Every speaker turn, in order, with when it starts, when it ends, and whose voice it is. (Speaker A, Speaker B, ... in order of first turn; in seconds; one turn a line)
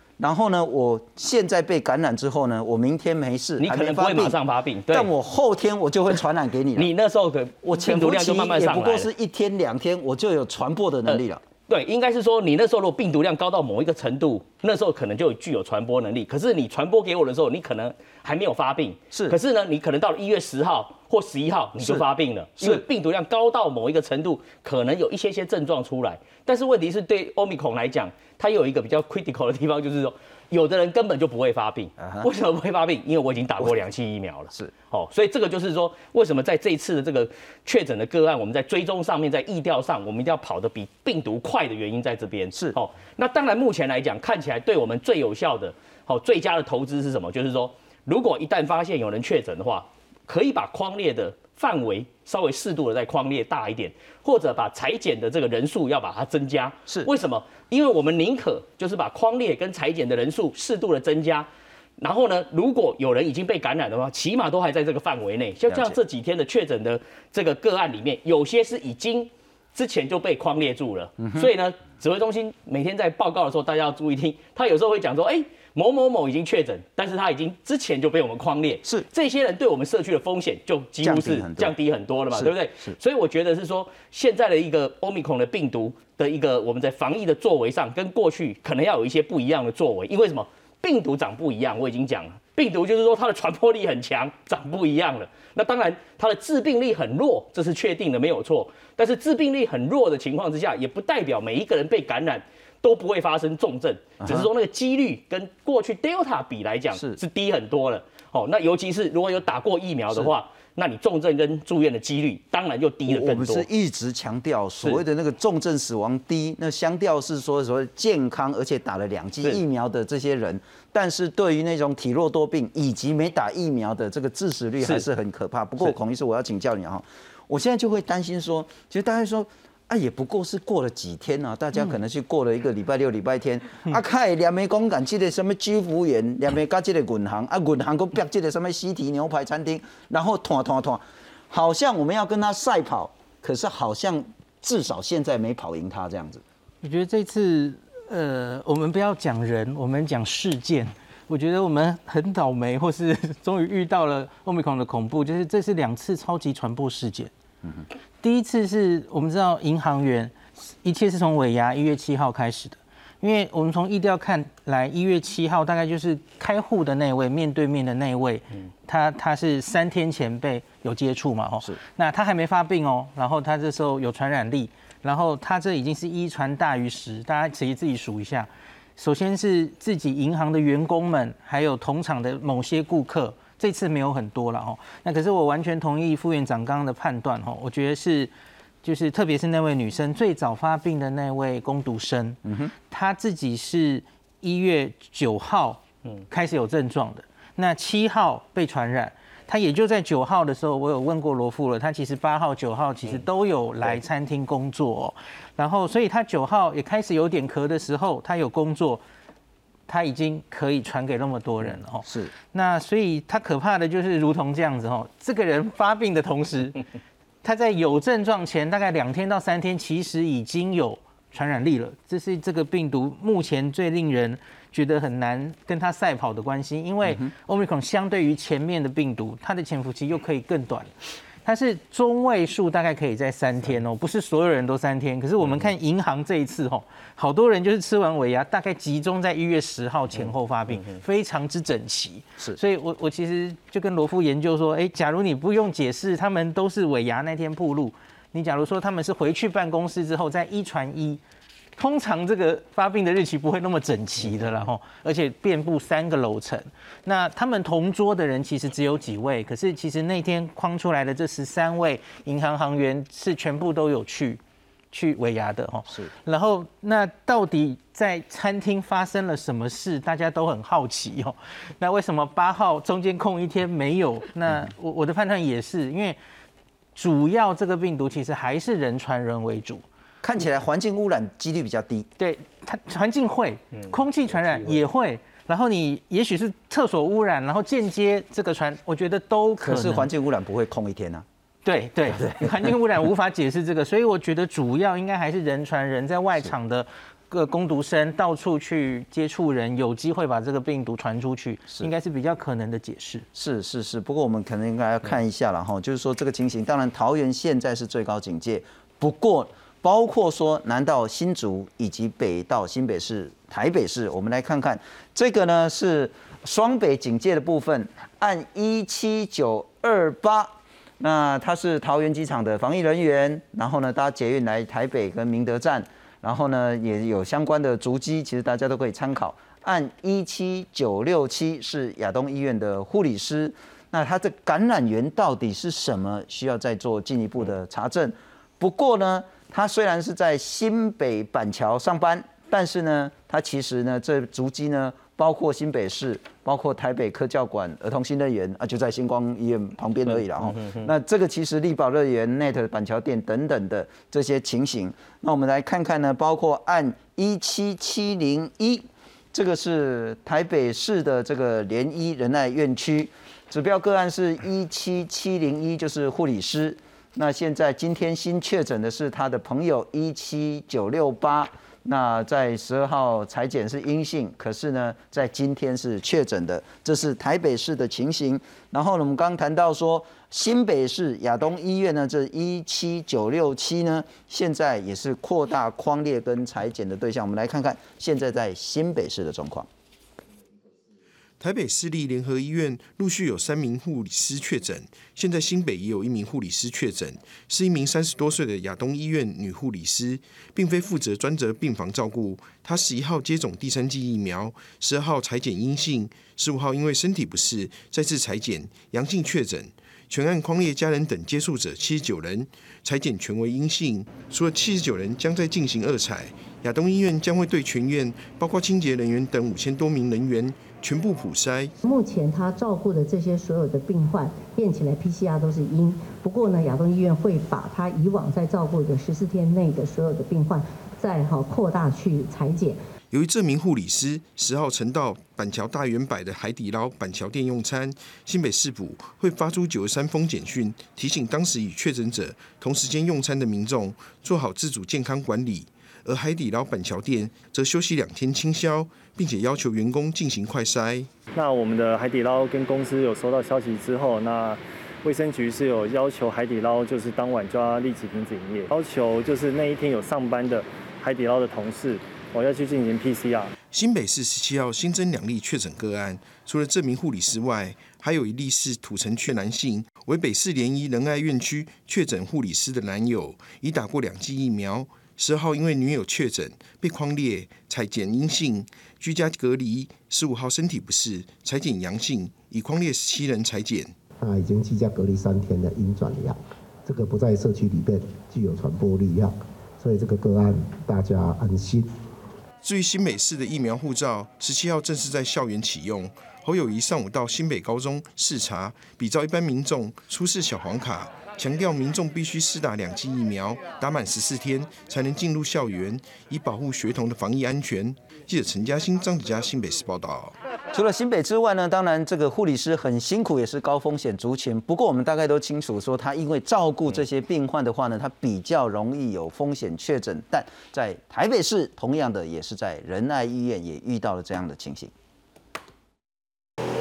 Speaker A: 0.2-4.4
Speaker B: 3.6-5.1
Speaker A: 4.9-6.9
Speaker B: 6.8-9.1
Speaker A: 7.6-11.4
Speaker B: 11.1-61.5
Speaker A: 19.1-19.4
Speaker A: 21.8-22.0
Speaker A: 22.6-22.8
Speaker A: 32.0-32.3
Speaker B: 62.0-113.7
Speaker A: 65.7-66.0
Speaker A: 71.2-71.5
Speaker A: 81.0-81.7
Speaker A: 82.3-83.0
Speaker A: 104.2-104.5
Speaker A: 113.0-146.4
Speaker C: 146.8-157.3
Speaker C: 158.2-188.3
Speaker C: 188.8-209.0
Speaker A: 192.4-192.7
Speaker C: 209.9-216.8
Speaker A: 212.0-212.3
Speaker C: 217.4-230.9
Speaker C: 231.4-251.2
Speaker C: 251.8-264.4
Speaker C: 264.9-276.2
Speaker C: 276.9-279.8
Speaker A: 280.2-282.1
Speaker C: 282.2-290.1
Speaker A: 289.6-291.2
Speaker C: 291.6-303.2
Speaker A: 292.1-292.7
Speaker A: 303.3-389.7
Speaker D: 391.4-421.7
Speaker E: 421.8-432.8
Speaker D: 433.1-451.1
Speaker F: 451.4-463.5
Speaker D: 463.7-483.9
Speaker G: 484.2-491.9
Speaker D: 492.6-510.3
Speaker A: 510.7-524.9